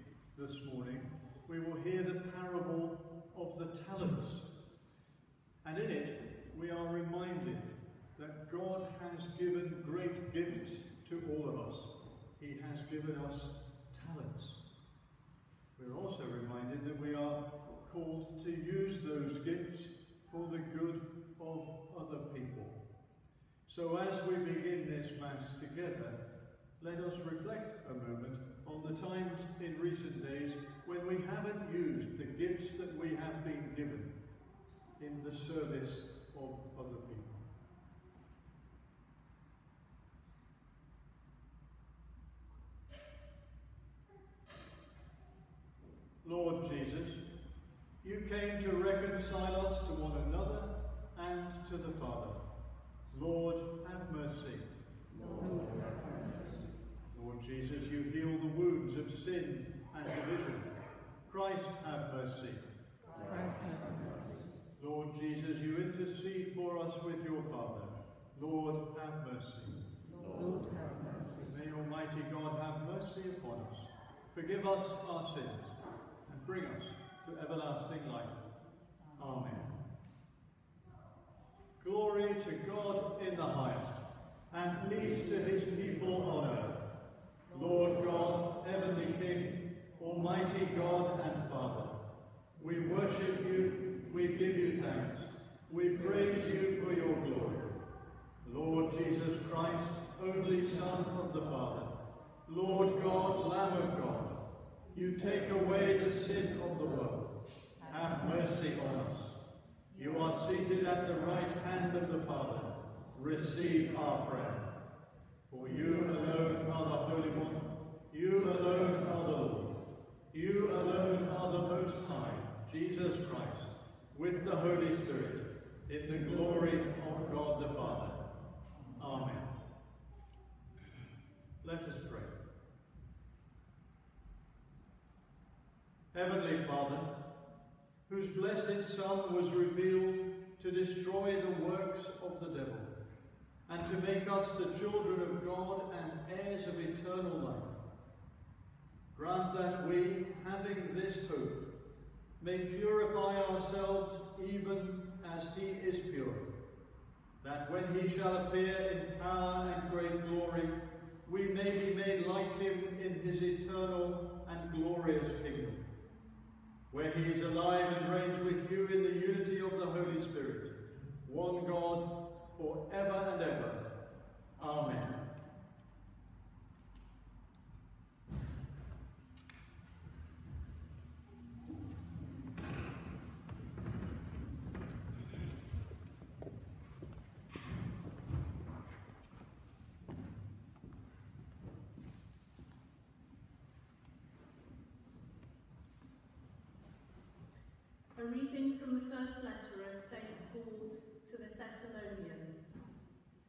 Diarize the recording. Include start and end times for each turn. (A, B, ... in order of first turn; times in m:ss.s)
0:00.3-0:04.5 A
0:05.6-0:14.6 A
0:15.8-0:22.8 A
0:23.7-0:26.2 A
0:26.8-0:34.1 A
0:35.0-0:37.4 A
0:46.2-0:47.2 A
0:48.0-0:52.4 A
0:53.1-0:54.7 A
0:55.3-0:56.6 B
0:57.1-1:00.7 A
1:01.3-1:02.6 A
1:03.2-1:04.4 B
1:04.8-1:09.8 A
1:10.3-1:11.4 B
1:11.5-1:18.4 A
1:19.2-1:19.7 A
1:21.8-1:26.8 A
1:27.5-1:32.0 A
1:32.6-1:37.8 A
1:38.4-1:41.9 A
1:42.4-1:44.4 A
1:44.9-1:49.4 A
1:49.9-1:54.7 A
1:55.5-2:08.2 A
2:09.0-2:09.5 A
2:11.6-2:12.3 A
2:16.1-2:17.1 A
2:18.1-2:22.9 A
2:23.7-2:27.8 A
2:29.1-2:31.6 A
2:32.4-2:36.5 A
2:37.4-2:45.8 A
2:46.9-2:50.7 A
2:51.2-2:53.8 A
2:54.6-2:55.2 A
3:18.1-3:22.7 C